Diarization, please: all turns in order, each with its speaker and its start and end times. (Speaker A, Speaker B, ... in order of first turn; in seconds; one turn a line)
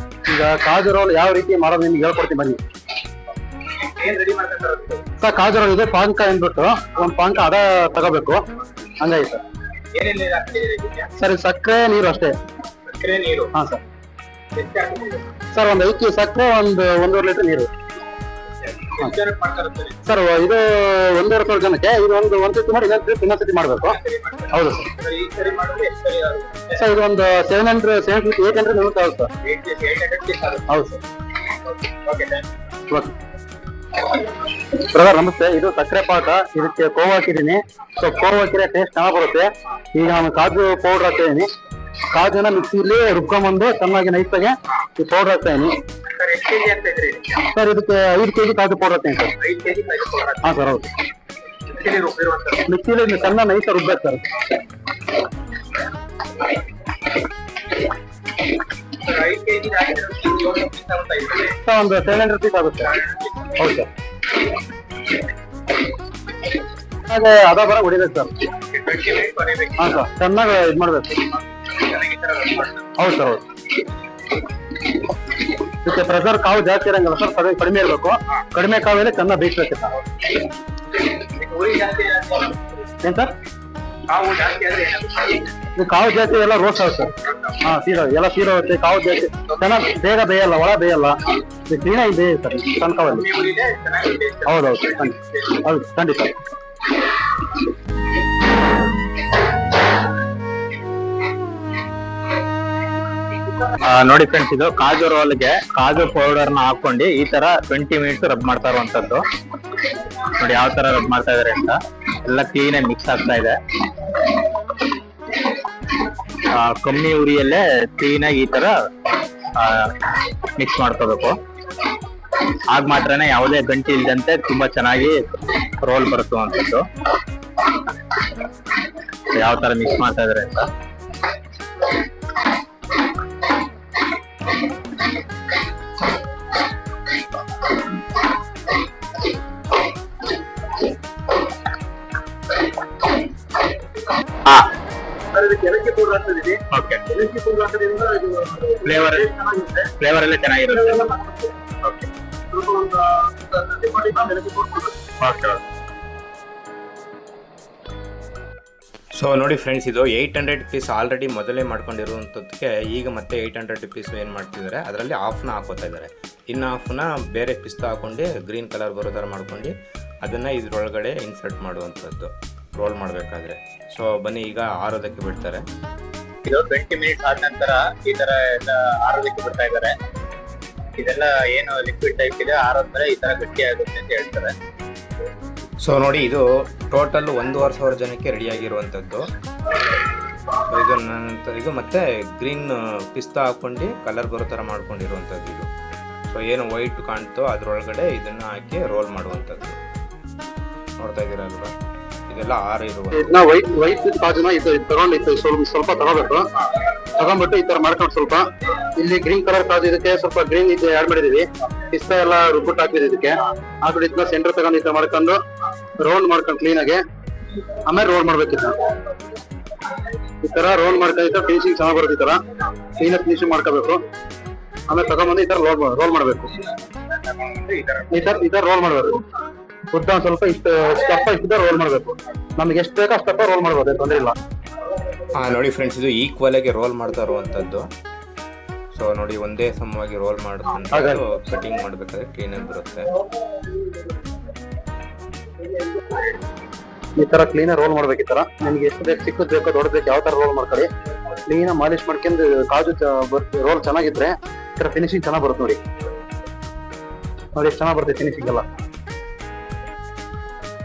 Speaker A: 0.3-2.6
Speaker B: 3.7-5.0
Speaker A: 5.2-8.4
Speaker A: 9.0-9.4
Speaker B: 9.9-11.1
Speaker A: 11.2-12.3
Speaker B: 12.9-13.5
Speaker A: 13.5-13.8
Speaker B: 14.5-15.3
Speaker A: 15.5-17.7
Speaker B: 18.6-20.0
Speaker A: 20.1-24.0
Speaker B: 23.9-26.8
Speaker A: 24.5-24.9
Speaker A: 26.7-29.3
Speaker B: 29.4-30.7
Speaker A: 30.7-31.0
Speaker B: 31.7-32.5
Speaker A: 32.9-33.1
Speaker A: 34.7-41.5
Speaker A: 42.1-45.8
Speaker B: 46.1-47.5
Speaker A: 47.4-49.3
Speaker B: 49.4-50.5
Speaker A: 50.4-50.9
Speaker B: 51.6-52.6
Speaker A: 52.6-54.3
Speaker B: 58.9-61.6
Speaker A: 61.6-63.9
Speaker A: 67.0-68.3
Speaker B: 68.6-69.9
Speaker A: 69.8-71.4
Speaker B: 71.7-72.9
Speaker A: 73.0-73.4
Speaker A: 75.7-80.0
Speaker B: 81.0-82.7
Speaker A: 83.0-83.3
Speaker B: 84.1-85.5
Speaker A: 85.8-93.3
Speaker B: 93.1-95.2
Speaker A: 94.5-96.4
Speaker B: 103.7-109.2
Speaker B: 110.2-113.6
Speaker B: 116.4-118.8
Speaker B: 119.5-121.4
Speaker B: 122.7-126.9
Speaker B: 129.3-130.7
Speaker B: 144.4-144.7
Speaker A: 145.3-149.9
Speaker B: 146.7-147.0
Speaker B: 148.9-149.2
Speaker B: 150.0-151.0
Speaker A: 150.7-151.5
Speaker B: 151.8-152.1
Speaker A: 152.5-155.0
Speaker B: 155.2-155.6
Speaker C: 159.2-175.7
Speaker B: 176.4-180.0
Speaker B: 181.0-184.6
Speaker C: 185.8-189.3
Speaker C: 190.6-195.7
Speaker C: 196.3-199.8
Speaker C: 201.0-201.7
Speaker C: 202.3-203.4
Speaker A: 203.1-206.5
Speaker A: 207.2-215.4
Speaker A: 216.0-217.0
Speaker A: 217.8-218.8
Speaker A: 220.4-224.0
Speaker A: 224.9-226.5
Speaker B: 227.1-228.4
Speaker A: 228.1-229.2
Speaker A: 229.9-234.4
Speaker C: 235.3-237.9
Speaker C: 238.9-243.1
Speaker A: 240.9-241.2
Speaker A: 247.2-250.9
Speaker A: 251.5-255.8
Speaker A: 257.6-258.7